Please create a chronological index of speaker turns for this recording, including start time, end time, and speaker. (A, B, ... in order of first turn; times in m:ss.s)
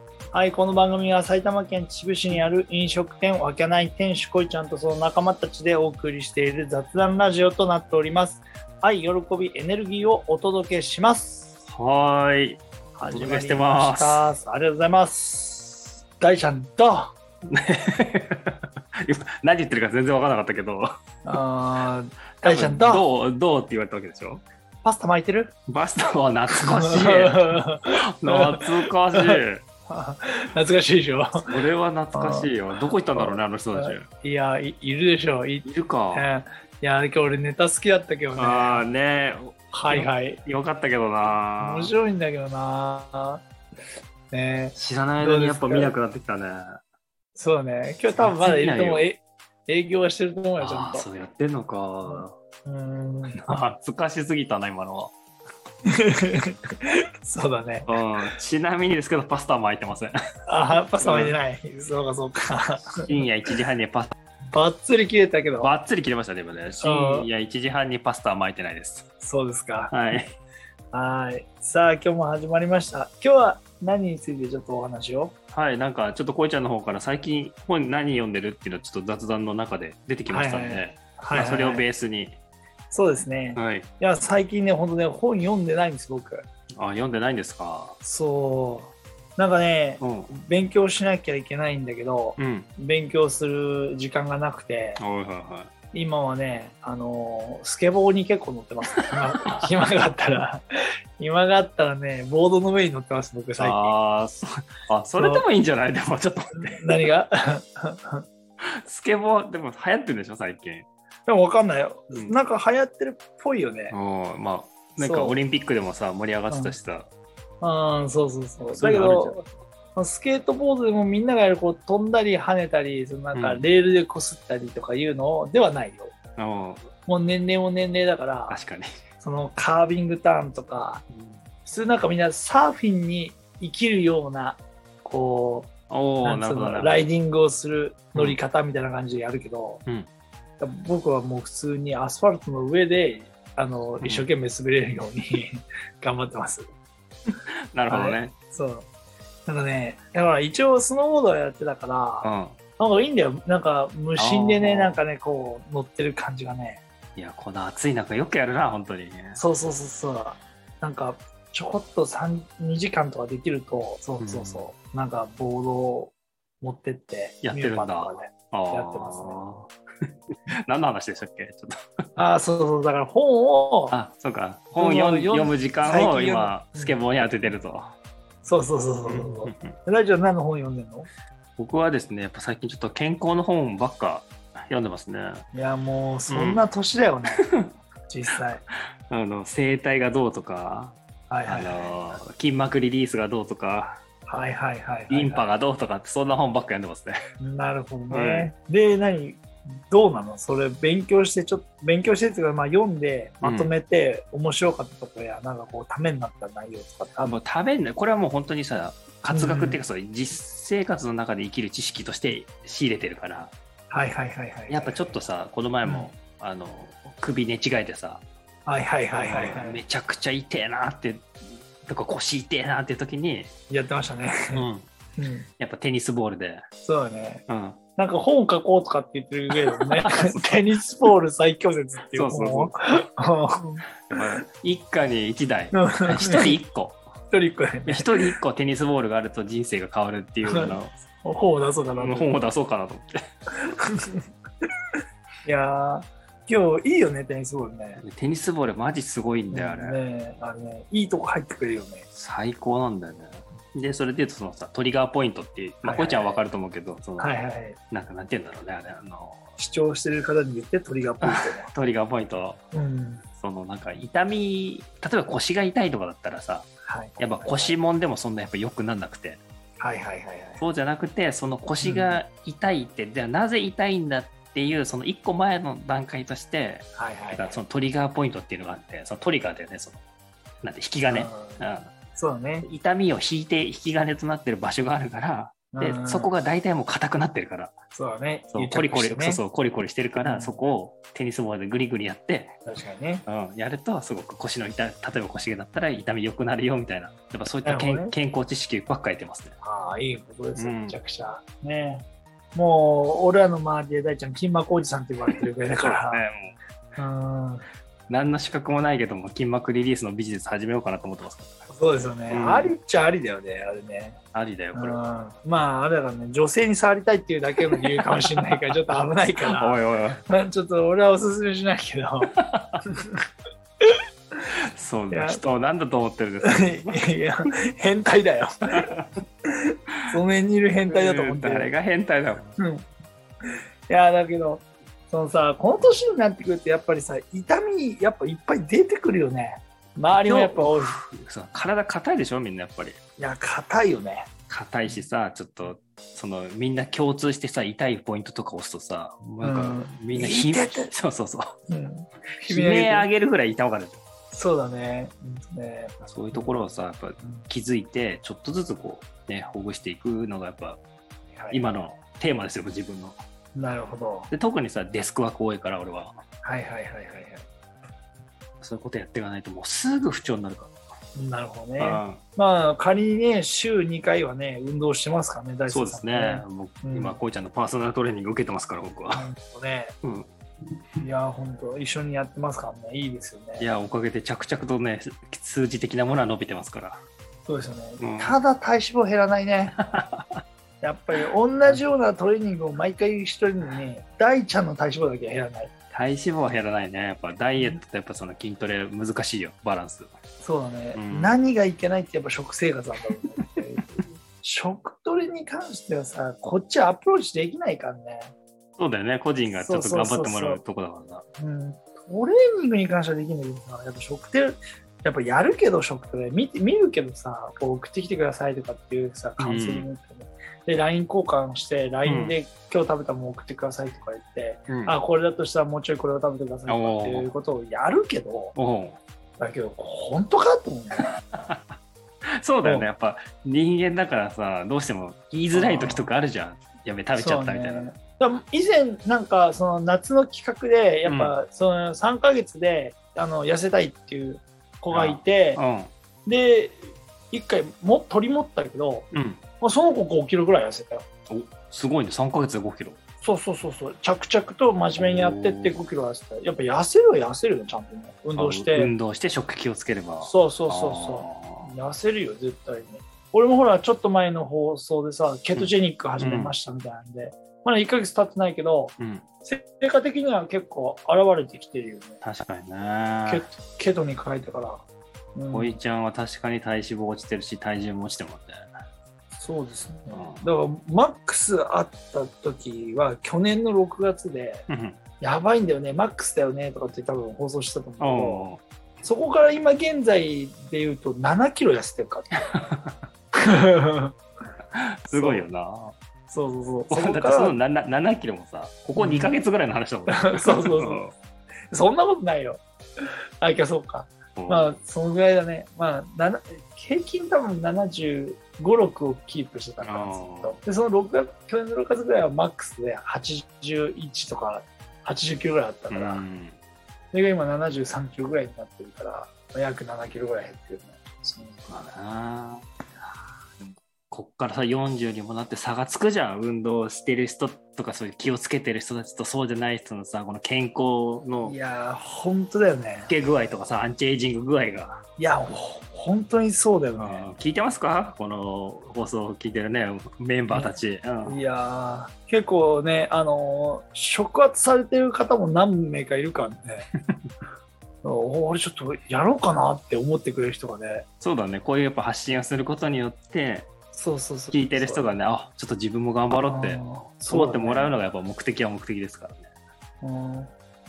0:00.3-0:11.5 A
0:11.7-0:14.3 B
0:13.0-0:17.1 A
0:17.5-0:20.9 B
0:21.2-0:23.1 A
0:22.4-0:24.4 B
0:24.8-0:25.5 A
0:25.7-0:29.6 B
0:26.5-0:31.5 A
0:31.4-0:34.1 B
0:32.1-0:38.9 A
0:35.6-0:36.3 B
0:38.4-0:41.9 B
0:39.7-0:40.4 A
0:41.6-0:43.4 A
0:44.3-0:45.9 A
0:44.8-0:46.8 B
0:47.4-0:51.1 A
0:48.2-0:49.0 B
0:50.6-0:52.3 B
0:52.1-0:53.4 A
0:53.3-0:55.1 B
0:55.8-0:57.9 A
0:57.9-1:00.1 B
1:00.5-1:03.1 A
1:01.0-1:01.4 B
1:03.0-1:04.1 B
1:04.5-1:05.7 A
1:05.6-1:09.1 B
1:06.8-1:07.3 A
1:09.2-1:09.9 A
1:09.9-1:10.4 B
1:10.9-1:15.3 A
1:15.5-1:22.4 B
1:20.3-1:21.8 A
1:22.9-1:26.4 A
1:23.6-1:23.9 B
1:26.8-1:28.0 B
1:28.0-1:35.0 A
1:30.0-1:30.3 B
1:32.4-1:32.7 B
1:35.0-1:35.7 B
1:35.9-1:40.6 A
1:41.2-1:43.9 A
1:43.6-1:46.8 B
1:45.2-1:45.4 A
1:46.6-1:48.2 A
1:48.6-1:50.9 B
1:51.3-1:54.0 A
1:53.9-1:57.1 B
1:55.0-1:55.4 A
1:56.5-1:56.8 A
1:57.6-2:06.2 A
1:58.7-1:59.4 B
2:03.3-2:03.6 B
2:06.4-2:06.9 B
2:07.0-2:08.6 A
2:08.5-2:08.9 B
2:09.2-2:11.0 A
2:11.1-2:11.4 B
2:11.6-2:15.7 A
2:15.9-2:17.0 B
2:16.2-2:19.8 A
2:20.6-2:26.7 A
2:24.0-2:24.3 B
2:27.7-2:28.3 B
2:27.9-2:28.9 A
2:29.5-2:32.3 A
2:32.2-2:32.6 B
2:32.8-2:36.8 A
2:34.2-2:35.0 B
2:37.2-2:39.4 B
2:39.4-2:49.4 A
2:44.2-2:44.7 B
2:47.4-2:49.7 B
2:50.7-2:51.7 B
2:52.2-2:54.0 A
2:53.9-2:57.9 B
2:54.8-2:57.5 A
2:58.4-3:01.1 A
2:59.1-2:59.7 B
3:01.6-3:05.4 B
3:05.5-3:07.4 A
3:06.3-3:06.6 B
3:07.4-3:07.7 B
3:08.1-3:08.6 A
3:09.1-3:11.0 B
3:11.3-3:12.2 A
3:11.5-3:14.0 B
3:14.3-3:15.5 A
3:15.1-3:17.2 B
3:17.4-3:27.4 A
3:18.1-3:18.5 B
3:23.4-3:23.7 B
3:27.2-3:33.5 B
3:29.3-3:29.8 A
3:33.9-3:35.2 A
3:34.7-3:38.2 B
3:35.8-3:36.1 A
3:38.7-3:39.8 A
3:39.2-3:41.3 B
3:41.8-3:43.5 B
3:43.7-3:44.6 A
3:44.5-3:44.9 B
3:45.2-3:45.5 A
3:45.6-3:46.7 B
3:46.8-3:47.4 A
3:47.5-3:47.8 B
3:48.0-3:54.4 A
3:49.8-3:50.6 B
3:52.1-3:52.7 B
3:54.1-3:57.0 B
3:55.7-3:56.6 A
3:57.3-3:58.4 A
3:57.9-4:00.9 B
4:00.4-4:02.3 A
4:02.0-4:03.2 B
4:03.7-4:04.2 A
4:05.4-4:08.0 A
4:08.0-4:10.0 B
4:09.5-4:12.1 A
4:12.1-4:17.3 B
4:15.8-4:16.4 A
4:17.2-4:17.8 A
4:17.9-4:19.4 B
4:19.6-4:21.7 A
4:21.2-4:22.6 B
4:22.7-4:23.2 A
4:23.4-4:26.7 B
4:26.8-4:27.8 A
4:27.2-4:29.4 B
4:29.8-4:30.6 A
4:30.6-4:40.0 B
4:31.8-4:32.2 A
4:37.0-4:37.6 A
4:40.6-4:41.9 B
4:41.1-4:42.7 A
4:42.6-4:47.7 B
4:45.7-4:46.3 A
4:47.9-4:49.4 A
4:48.5-4:52.6 B
4:50.2-4:50.6 A
4:52.7-4:53.2 A
4:53.3-4:59.6 B
4:57.6-4:58.2 A
4:59.6-5:06.2 A
5:00.6-5:01.0 B
5:05.8-5:06.6 B
5:07.0-5:07.6 A
5:08.1-5:11.6 B
5:11.7-5:14.2 A
5:12.3-5:12.7 B
5:14.3-5:15.0 B
5:14.7-5:23.2 A
5:17.7-5:18.3 B
5:19.6-5:20.2 B
5:22.3-5:22.8 B
5:24.7-5:27.0 B
5:25.1-5:25.4 A
5:26.4-5:29.0 A
5:28.8-5:29.1 B
5:29.6-5:31.7 A
5:30.9-5:32.6 B
5:32.6-5:32.8 A
5:33.5-5:41.0 A
5:40.1-5:43.0 B
5:43.2-5:44.3 A
5:44.5-5:51.6 B
5:49.4-5:50.9 A
5:51.7-5:53.1 A
5:52.4-5:54.0 B
5:54.3-5:56.5 A
5:56.0-6:00.8 B
6:01.3-6:01.6 A
6:01.5-6:03.2 B
6:03.6-6:04.3 A
6:04.3-6:06.2 B
6:06.4-6:07.4 A
6:08.6-6:10.7 B
6:11.2-6:17.2 A
6:11.8-6:12.2 B
6:15.7-6:19.3 B
6:19.1-6:20.0 A
6:20.0-6:20.3 B
6:21.0-6:23.7 A
6:23.6-6:27.0 B
6:27.5-6:29.8 A
6:28.0-6:28.4 B
6:29.8-6:30.3 B
6:30.8-6:35.7 A
6:35.9-6:40.1 B
6:40.4-6:48.3 A
6:41.0-6:41.4 B
6:48.8-6:51.2 B
6:49.5-6:50.6 A
6:51.4-7:08.6 A
6:59.4-6:59.9 B
7:02.0-7:02.4 B
7:04.7-7:05.0 B
7:06.7-7:07.3 B
7:08.6-7:09.0 B
7:09.4-7:11.2 A
7:11.0-7:11.8 B
7:12.4-7:17.9 B
7:12.6-7:12.9 A
7:15.5-7:16.1 A
7:17.2-7:25.6 A
7:21.1-7:21.3 B
7:24.9-7:25.9 B
7:26.3-7:29.1 A
7:29.1-7:29.4 B
7:29.6-7:31.0 A
7:31.3-7:33.0 B
7:33.2-7:38.9 A
7:35.0-7:35.8 B
7:38.4-7:41.7 B
7:40.2-7:52.2 A
7:45.6-7:46.5 B
7:49.0-7:49.3 B
7:52.2-7:53.4 B
7:53.3-7:54.8 A
7:55.4-7:55.8 A
7:55.5-7:58.6 B
7:59.4-8:04.7 A
8:00.1-8:00.4 B
8:04.7-8:05.0 B
8:05.2-8:12.5 A
8:08.0-8:08.6 B
8:12.5-8:13.0 B
8:13.3-8:14.2 A
8:14.7-8:16.0 B
8:15.1-8:15.4 A
8:16.3-8:17.6 A
8:16.9-8:21.1 B
8:19.0-8:19.4 A
8:20.1-8:21.0 A
8:21.7-8:36.2 A
8:24.4-8:24.7 B
8:29.8-8:30.6 B
8:35.9-8:36.6 B
8:37.1-8:41.7 A
8:41.7-8:42.6 B
8:43.6-8:51.6 B
8:51.4-8:53.1 A
8:53.1-8:55.0 B
8:55.2-8:57.3 A
8:57.0-9:01.4 B
9:00.5-9:06.9 A
9:08.0-9:11.1 A
9:11.2-9:13.7 B
9:13.9-9:15.1 A
9:14.5-9:19.5 B
9:16.4-9:18.0 A
9:20.0-9:20.5 A